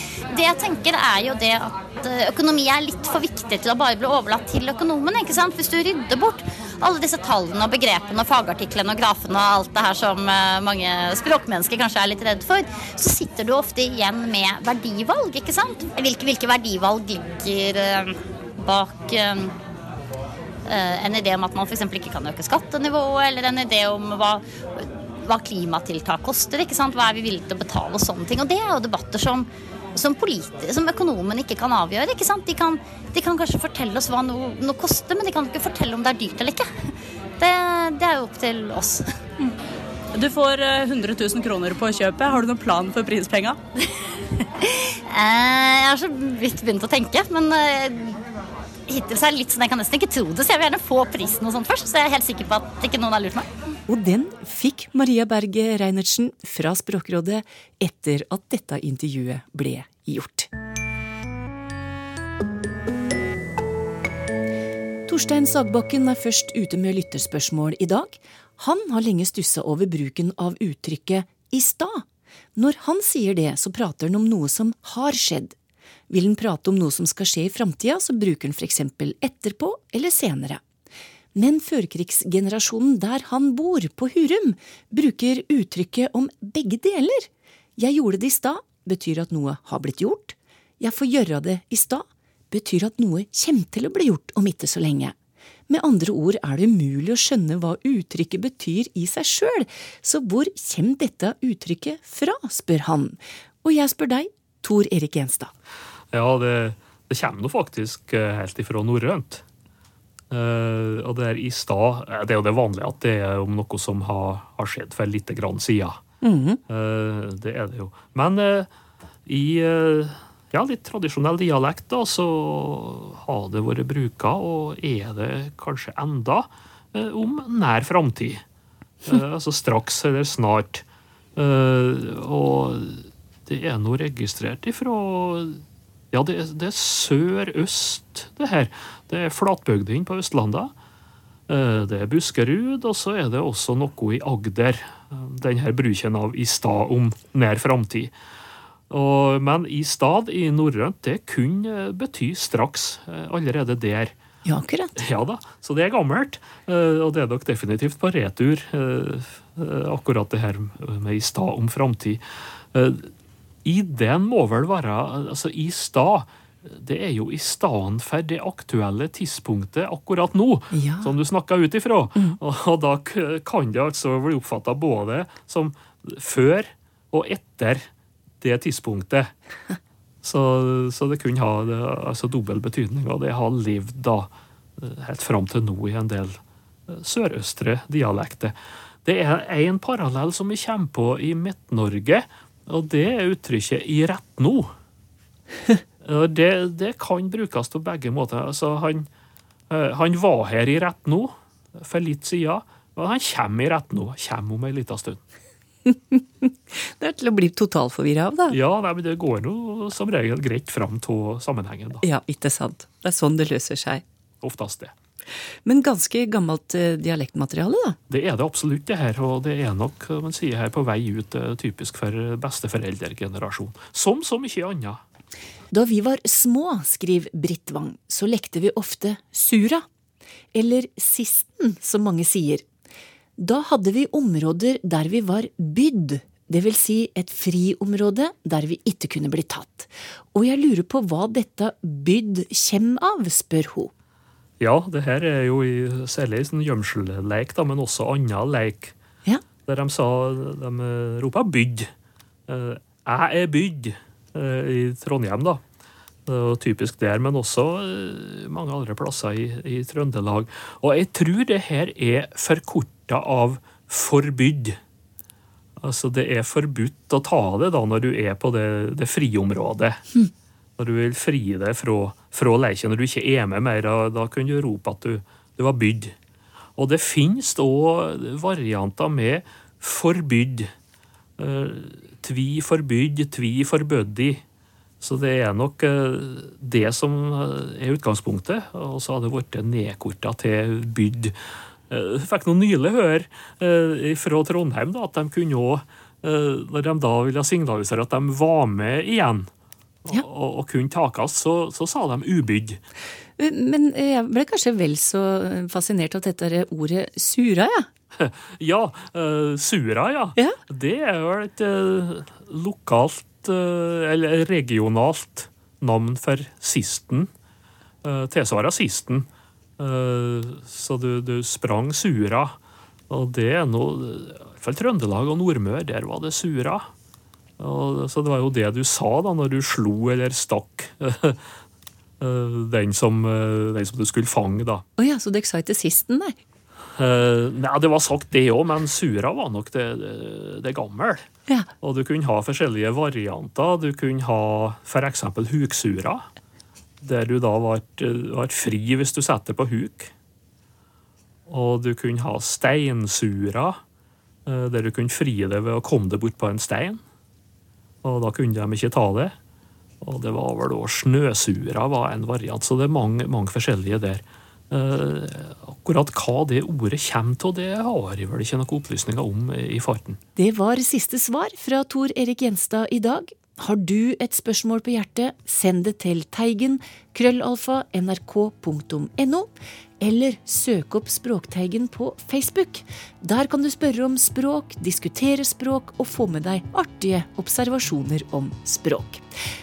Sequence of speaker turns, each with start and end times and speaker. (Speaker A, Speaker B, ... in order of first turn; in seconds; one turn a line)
Speaker A: 0.3-19.5
Speaker A: 20.7-36.6
Speaker A: 37.4-39.0
Speaker B: 40.1-43.6
Speaker A: 45.1-48.2
Speaker A: 48.9-53.5
Speaker C: 53.9-60.5
Speaker C: 65.1-72.0
Speaker C: 72.6-75.5
Speaker C: 76.1-80.6
Speaker C: 81.3-95.2
Speaker C: 95.7-105.5
Speaker D: 106.1-109.4
Speaker D: 110.3-116.0
Speaker C: 116.2-116.6
Speaker D: 116.7-118.7
Speaker D: 119.3-128.4
Speaker D: 129.1-130.8
Speaker D: 131.4-140.7
Speaker D: 141.5-148.1
Speaker D: 148.9-154.1
Speaker C: 154.5-154.9
Speaker D: 155.0-162.2
Speaker D: 162.7-163.1
Speaker D: 163.7-177.9
Speaker C: 170.7-171.2
Speaker D: 178.4-179.3
Speaker D: 180.2-194.7
Speaker D: 196.0-199.1
Speaker D: 199.7-205.2
Speaker C: 205.9-208.6
Speaker D: 208.5-212.1
Speaker C: 212.0-214.0
Speaker D: 214.4-214.9
Speaker C: 215.7-218.0
Speaker D: 218.1-225.0
Speaker C: 225.7-229.8
Speaker C: 230.5-232.7
Speaker C: 233.4-243.9
Speaker D: 244.6-248.9
Speaker D: 249.7-251.9
Speaker D: 252.5-255.6
Speaker D: 256.3-264.8
Speaker D: 265.8-270.0
Speaker D: 270.8-276.1
Speaker D: 276.8-280.7
Speaker D: 281.4-284.4
Speaker D: 285.0-291.3
Speaker D: 291.9-299.5
Speaker D: 300.1-302.8
Speaker C: 303.4-307.9
Speaker D: 308.2-317.3
Speaker D: 318.0-319.3
Speaker D: 319.8-322.6
Speaker D: 323.1-326.9
Speaker D: 327.6-331.4
Speaker D: 332.2-334.8
Speaker C: 335.0-336.4
Speaker D: 337.0-341.3
Speaker D: 341.8-346.2
Speaker D: 347.0-350.1
Speaker D: 351.5-353.8
Speaker D: 354.5-357.0
Speaker D: 358.0-359.3
Speaker D: 360.0-370.2
Speaker C: 370.4-379.5
Speaker C: 380.0-389.2